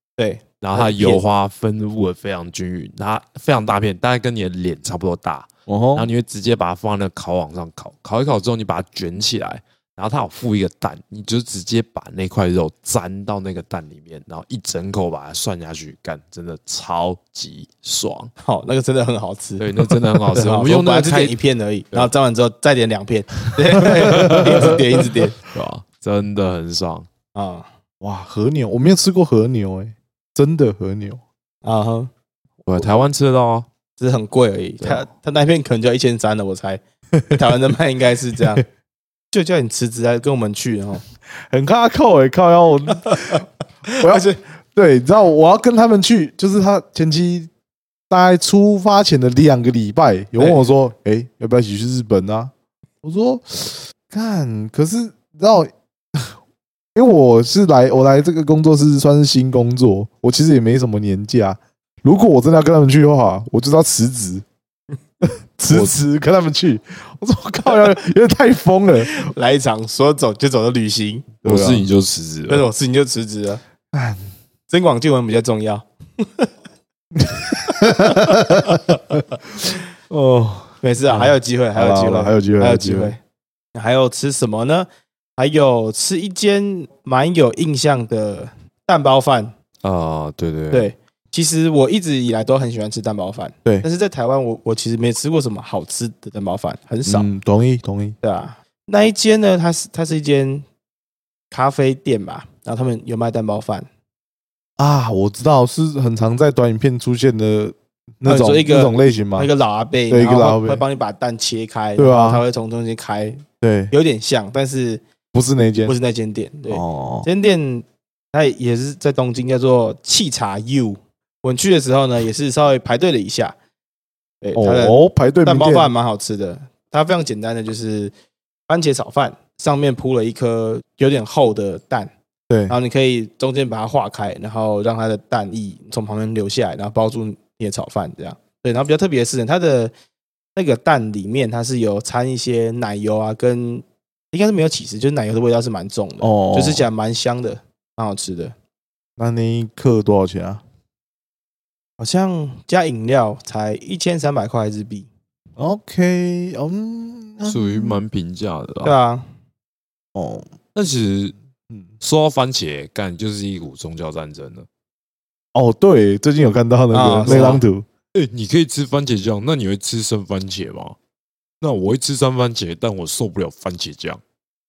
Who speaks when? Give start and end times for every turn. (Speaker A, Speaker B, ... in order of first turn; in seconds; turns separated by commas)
Speaker A: 0.2-1.2, Speaker B: 0.6-18.3, Speaker C: 5.7-6.1, Speaker A: 18.4-25.4, Speaker B: 19.6-21.4, Speaker B: 23.4-24.8, Speaker C: 24.0-24.6, Speaker B: 25.5-27.1, Speaker A: 27.4-27.7, Speaker C: 28.0-31.2, Speaker A: 31.6-32.1, Speaker B: 32.7-33.7, Speaker A: 34.0-38.6, Speaker A: 39.3-41.0, Speaker C: 41.5-43.5, Speaker A: 43.9-44.2, Speaker C: 44.0-47.5, Speaker C: 48.1-56.3, Speaker C: 57.0-64.5, Speaker C: 65.2-69.3, Speaker A: 69.1-71.3, Speaker C: 71.4-71.9, Speaker B: 71.5-72.7, Speaker A: 72.5-73.6, Speaker C: 73.9-74.2, Speaker A: 74.7-76.5, Speaker C: 77.2-83.2, Speaker A: 80.8-83.2, Speaker A: 83.7-89.5, Speaker B: 89.8-90.9, Speaker A: 90.7-97.3, Speaker C: 97.1-98.2, Speaker A: 98.2-100.7, Speaker A: 101.5-103.9, Speaker C: 104.8-109.5, Speaker A: 108.2-115.0, Speaker C: 110.1-110.8, Speaker C: 112.0-112.4, Speaker C: 113.6-113.9, Speaker C: 115.3-115.9, Speaker A: 115.9-123.5, Speaker C: 116.7-117.3, Speaker A: 124.4-128.1, Speaker C: 124.5-125.9, Speaker A: 128.7-132.1, Speaker C: 132.5-132.8, Speaker A: 132.7-139.9, Speaker A: 140.6-148.5, Speaker C: 146.2-146.9, Speaker C: 149.2-150.6, Speaker A: 152.0-155.1, Speaker C: 155.6-158.0, Speaker B: 157.5-159.0, Speaker A: 158.8-159.3, Speaker C: 160.2-160.5, Speaker B: 160.8-161.3, Speaker B: 162.0-164.7, Speaker C: 165.5-167.9, Speaker A: 166.9-167.6, Speaker B: 168.1-171.0, Speaker B: 171.6-174.2